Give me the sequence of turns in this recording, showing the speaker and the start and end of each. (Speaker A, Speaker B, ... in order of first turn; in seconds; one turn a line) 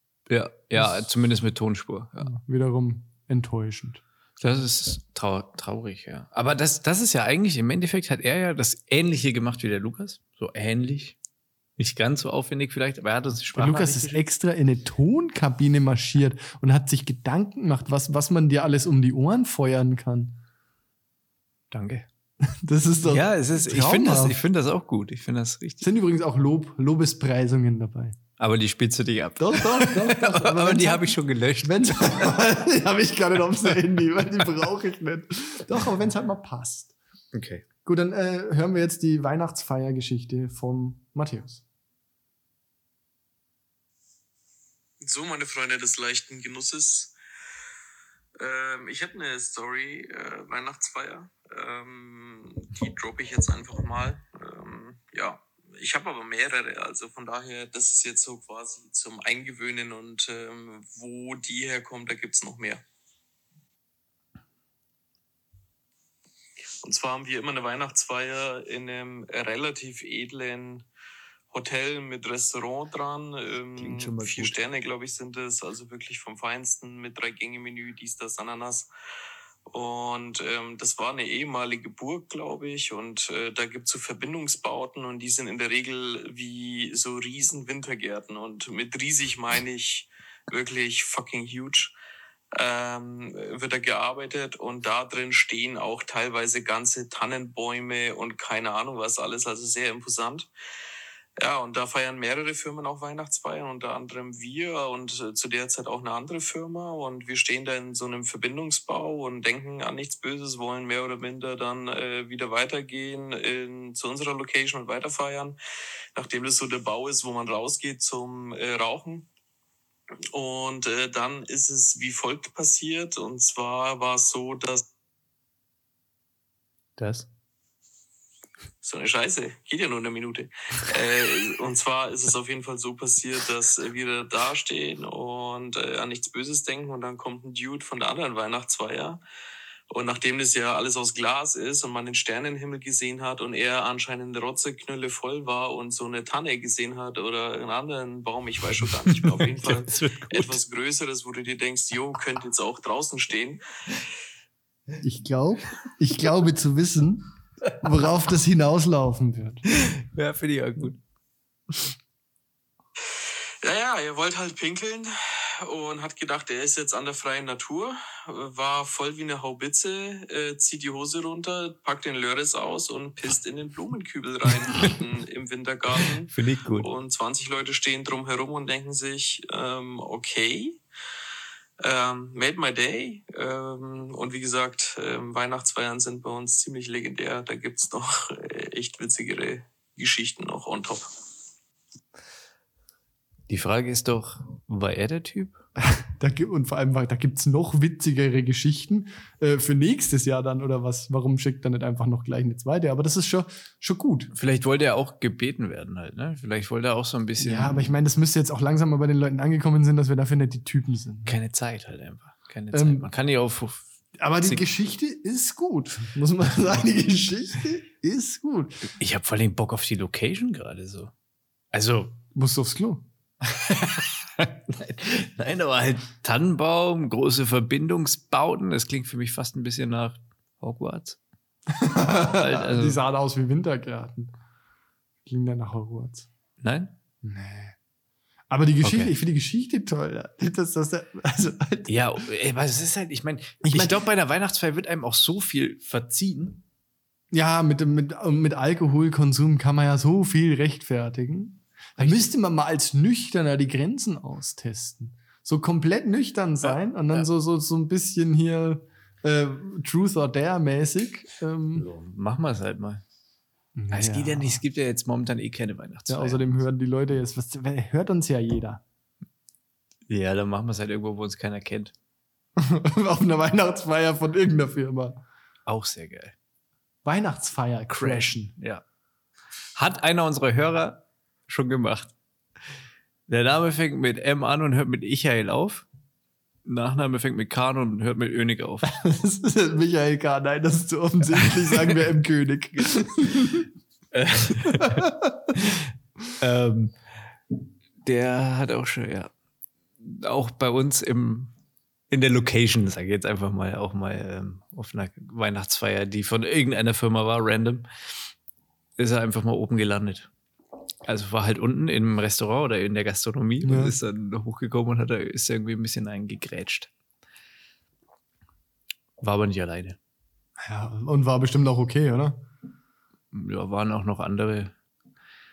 Speaker A: 0.3-2.3
Speaker B: 2.2-4.0
Speaker A: 4.4-11.2
Speaker A: 11.8-14.2
Speaker B: 13.5-20.3
Speaker A: 21.7-22.1
Speaker B: 22.4-24.4
Speaker A: 23.1-25.9
Speaker B: 25.8-28.2
Speaker A: 28.4-32.4
Speaker B: 29.4-36.9
Speaker A: 37.3-37.6
Speaker B: 37.8-41.6
Speaker C: 45.0-47.1
Speaker C: 48.4-62.8
Speaker C: 66.8-70.8
Speaker C: 71.5-78.9
Speaker A: 73.8-74.6
Speaker C: 79.7-91.9
Speaker C: 92.5-100.5
Speaker C: 101.4-115.6
Speaker C: 116.1-119.3
Speaker C: 120.3-124.9
Speaker A: 127.0-127.3
Speaker C: 128.8-139.2
Speaker C: 139.9-153.6
Speaker A: 149.1-150.6
Speaker B: 155.0-157.3
Speaker B: 157.8-159.6
Speaker A: 159.7-161.0
Speaker C: 163.6-180.8
Speaker A: 176.3-176.9
Speaker C: 181.8-191.1
Speaker A: 193.5-195.6
Speaker B: 195.8-204.3
Speaker A: 204.3-207.9
Speaker B: 207.4-211.4
Speaker A: 211.2-213.9
Speaker B: 212.7-213.1
Speaker B: 214.2-218.9
Speaker A: 218.9-221.1
Speaker A: 221.7-222.2
Speaker B: 222.3-223.0
Speaker A: 223.4-231.2
Speaker B: 231.7-234.3
Speaker A: 232.2-233.0
Speaker B: 235.2-236.3
Speaker A: 236.6-236.9
Speaker B: 237.2-237.8
Speaker B: 238.5-241.9
Speaker A: 238.8-239.1
Speaker A: 241.9-246.6
Speaker B: 243.6-244.0
Speaker B: 247.3-261.9
Speaker A: 252.0-252.3
Speaker A: 256.6-257.2
Speaker A: 261.7-263.0
Speaker B: 263.7-264.6
Speaker A: 263.9-266.6
Speaker B: 266.1-268.8
Speaker A: 270.1-271.9
Speaker B: 272.6-275.2
Speaker A: 275.6-276.3
Speaker B: 277.0-278.5
Speaker A: 277.9-278.8
Speaker A: 279.7-282.1
Speaker A: 283.3-285.9
Speaker A: 286.6-288.9
Speaker B: 288.8-293.7
Speaker A: 291.5-291.7
Speaker A: 294.1-296.9
Speaker B: 294.7-295.5
Speaker A: 298.0-299.3
Speaker A: 300.0-301.5
Speaker A: 302.1-307.9
Speaker A: 309.0-310.3
Speaker A: 311.1-316.9
Speaker B: 313.6-313.9
Speaker A: 319.2-320.0
Speaker B: 320.6-322.4
Speaker A: 323.3-324.7